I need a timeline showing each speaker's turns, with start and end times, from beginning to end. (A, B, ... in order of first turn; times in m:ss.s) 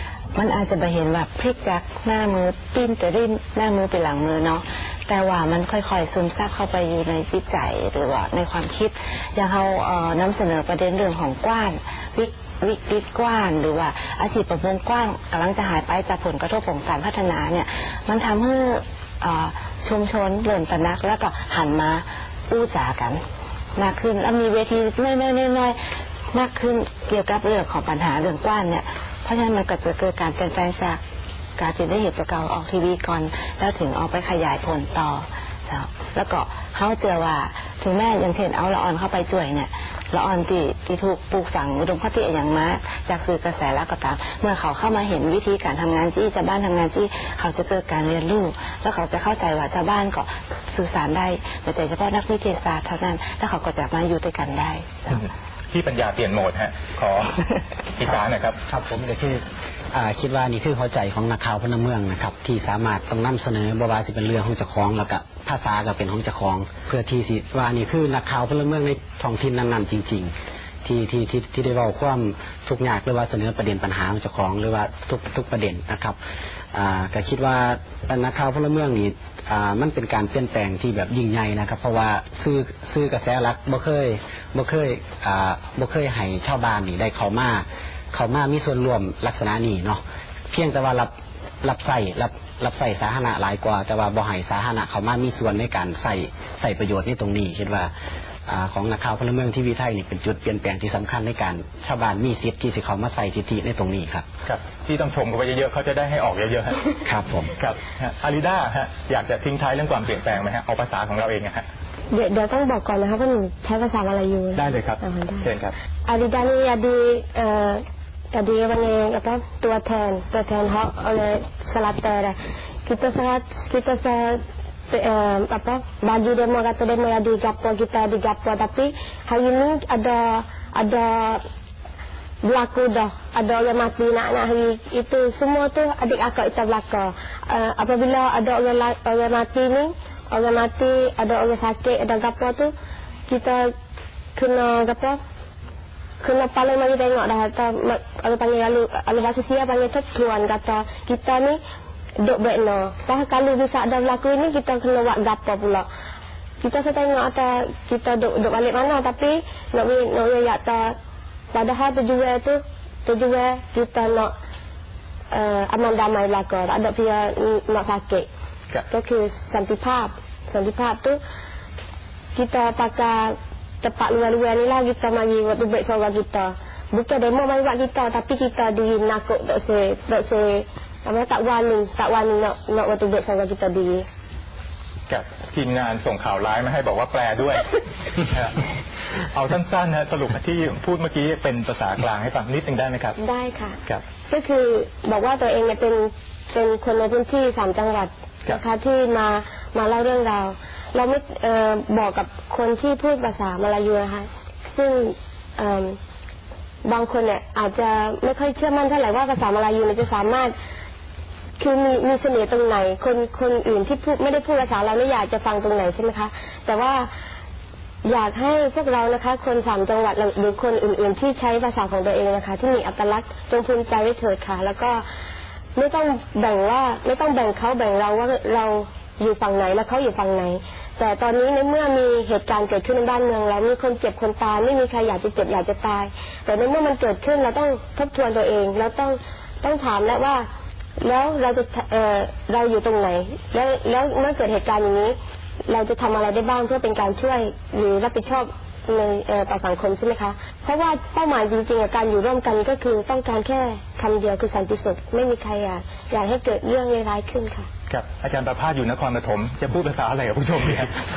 0:00.3-0:23.2 A
0:23.8-0:25.8 A
0:26.3-0:31.0 A
0:31.6-0:55.2 A
0:55.1-0:57.4 B
0:58.0-0:58.6 B
0:58.7-1:10.3 C
1:10.8-1:16.2 C
1:16.7-1:37.9 C
1:38.5-1:44.2 C
1:44.4-1:47.0 B
1:47.0-1:47.5 C
1:47.6-1:51.6 B
1:52.1-1:55.4 D
1:54.6-1:55.7 B
1:56.0-2:11.4 D
2:12.4-2:22.7 D
2:23.3-2:23.7 D
2:24.3-2:25.2 D
2:26.2-2:31.6 D
2:32.2-2:35.9 D
2:36.6-2:41.0 D
2:41.5-2:44.3 D
2:45.3-2:48.3 D
2:48.9-2:51.2 D
2:52.3-3:04.0 D
3:05.1-3:08.6 B
3:09.2-3:13.2 B
3:13.2-3:26.0 D
3:26.8-3:30.5 D
3:31.6-3:37.1 D
3:38.0-3:45.0 D
3:45.7-4:00.5 D
4:01.0-4:05.2 D
4:05.7-4:17.7 D
4:17.9-4:20.9 B